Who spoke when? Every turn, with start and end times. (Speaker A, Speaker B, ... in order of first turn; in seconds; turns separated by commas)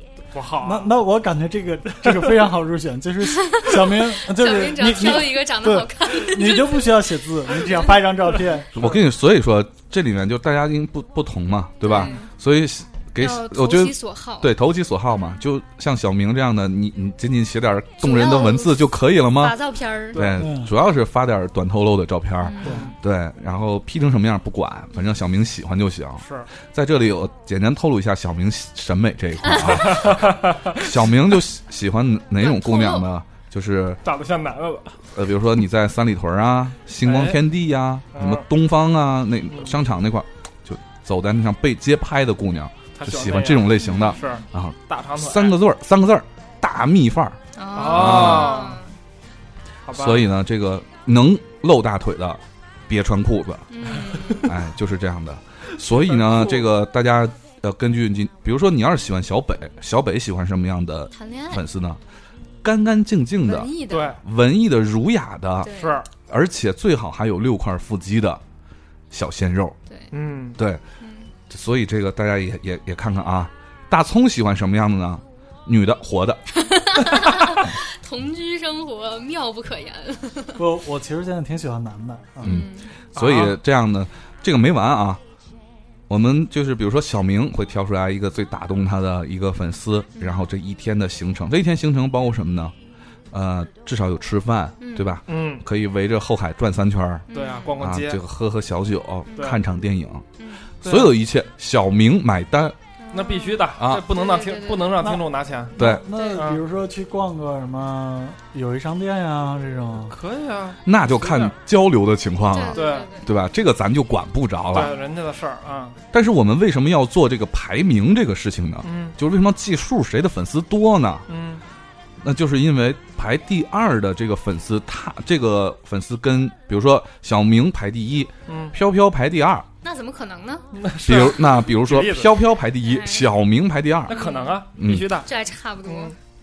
Speaker A: 0.3-0.9, Speaker B: 0.6-8.7, Speaker C: 3.6-7.0, Speaker D: 8.7-34.0, Speaker A: 8.7-9.0, Speaker C: 11.8-12.3, Speaker C: 13.2-14.6, Speaker C: 15.1-15.4, Speaker C: 18.0-20.4, Speaker B: 20.4-20.7, Speaker C: 22.4-22.8, Speaker A: 22.6-22.9, Speaker A: 26.2-26.5, Speaker C: 29.4-29.8, Speaker A: 29.8-30.9, Speaker C: 32.4-33.1, Speaker A: 34.0-35.0, Speaker D: 35.1-48.7, Speaker A: 37.0-37.4, Speaker A: 38.1-38.5, Speaker A: 39.5-39.8, Speaker A: 43.0-45.6, Speaker C: 43.8-44.2, Speaker C: 47.5-48.9, Speaker A: 47.7-48.8, Speaker A: 49.9-50.3, Speaker D: 49.9-53.8, Speaker C: 53.7-54.5, Speaker D: 54.4-62.0, Speaker A: 55.8-56.7, Speaker C: 61.1-61.6, Speaker D: 62.6-68.4, Speaker C: 63.4-64.2, Speaker A: 63.9-64.2, Speaker C: 65.6-66.0, Speaker A: 65.7-66.1, Speaker D: 69.1-69.8, Speaker A: 70.1-70.6, Speaker D: 70.5-70.8, Speaker C: 71.0-71.3, Speaker D: 71.5-76.4, Speaker C: 76.5-80.6, Speaker B: 80.5-82.6, Speaker C: 82.4-82.9, Speaker D: 82.4-85.2, Speaker A: 83.1-83.6, Speaker D: 86.1-92.7, Speaker C: 90.2-90.5, Speaker D: 93.3-100.3, Speaker C: 94.8-95.2, Speaker A: 95.3-95.6, Speaker C: 97.3-97.8, Speaker A: 97.3-98.2, Speaker C: 99.3-99.5, Speaker C: 100.4-100.7, Speaker A: 100.8-101.1, Speaker D: 100.8-102.8, Speaker C: 103.0-105.1, Speaker A: 103.1-105.7, Speaker D: 103.7-104.1, Speaker B: 105.0-110.2, Speaker D: 105.8-106.0, Speaker C: 105.8-106.5, Speaker A: 106.3-106.6, Speaker A: 110.1-111.5, Speaker D: 110.8-114.9, Speaker C: 112.5-113.3, Speaker A: 112.7-113.1, Speaker A: 114.7-116.0, Speaker D: 116.1-121.3, Speaker A: 118.8-119.2, Speaker A: 121.3-121.6, Speaker D: 122.2-129.7, Speaker A: 128.5-128.8, Speaker C: 129.8-130.7, Speaker A: 130.7-132.4, Speaker D: 131.0-135.2, Speaker C: 132.8-133.3, Speaker A: 134.1-135.3, Speaker C: 134.1-134.6, Speaker C: 135.2-136.2, Speaker A: 135.8-136.2